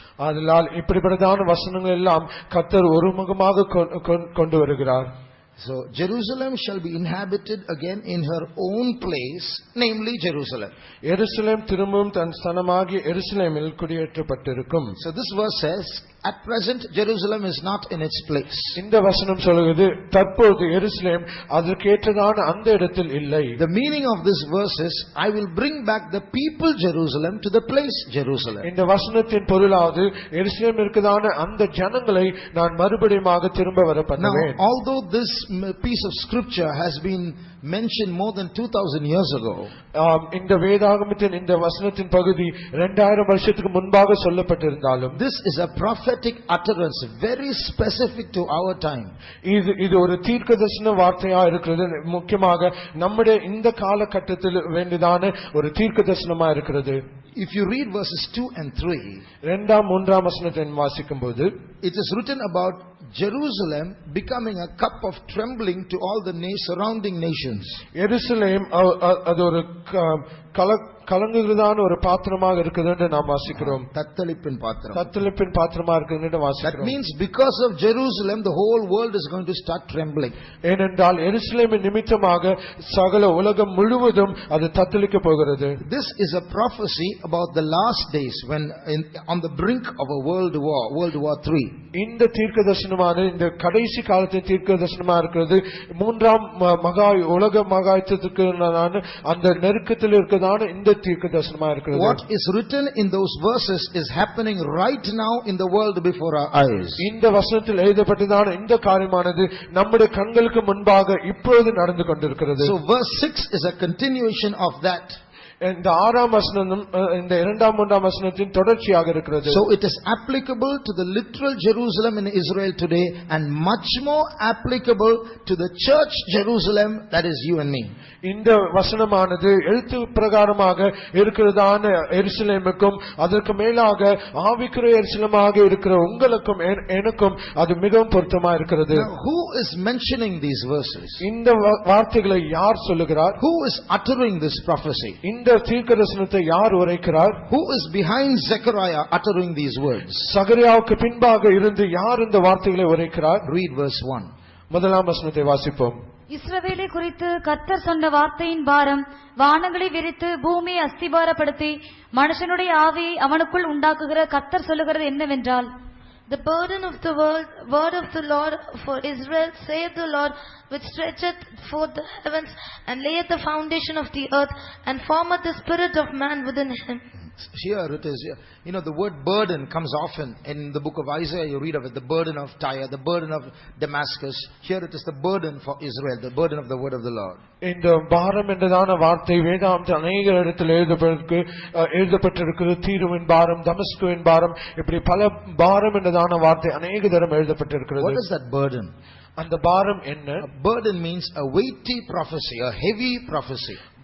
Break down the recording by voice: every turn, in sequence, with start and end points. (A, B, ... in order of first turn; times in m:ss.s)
0:00.2-0:05.1 A
0:05.6-0:10.7 B
0:11.0-0:15.0 A
0:15.0-0:18.8 B
0:18.8-0:23.6 A
0:23.6-0:28.7 B
0:28.6-0:34.6 A
0:34.2-0:39.7 B
0:40.0-0:45.2 A
0:45.2-0:49.1 B
0:49.4-0:57.0 A
0:57.4-0:59.2 B
0:59.4-1:01.5 A
1:01.8-1:07.8 B
1:08.0-1:13.9 A
1:13.5-1:15.1 B
1:14.9-1:17.0 A
1:16.6-1:20.4 B
1:20.6-1:25.8 A
1:25.8-1:31.8 B
1:31.9-1:42.2 A
1:41.9-1:47.0 B
1:47.0-1:52.7 A
1:52.6-1:55.2 B
1:55.6-1:59.6 A
1:59.5-2:07.9 B
2:08.2-2:19.1 A
2:18.9-2:21.2 B
2:21.2-2:23.4 A
2:23.4-2:25.2 B
2:25.2-2:27.4 A
2:27.5-2:30.2 B
2:30.2-2:33.4 A
2:33.4-2:34.3 B
2:34.7-2:36.0 A
2:36.3-2:45.7 C
2:46.3-2:57.0 D
2:57.4-3:07.4 B
3:07.6-3:18.2 A
3:18.0-3:18.9 B
3:19.4-3:20.4 A
3:20.4-3:23.8 B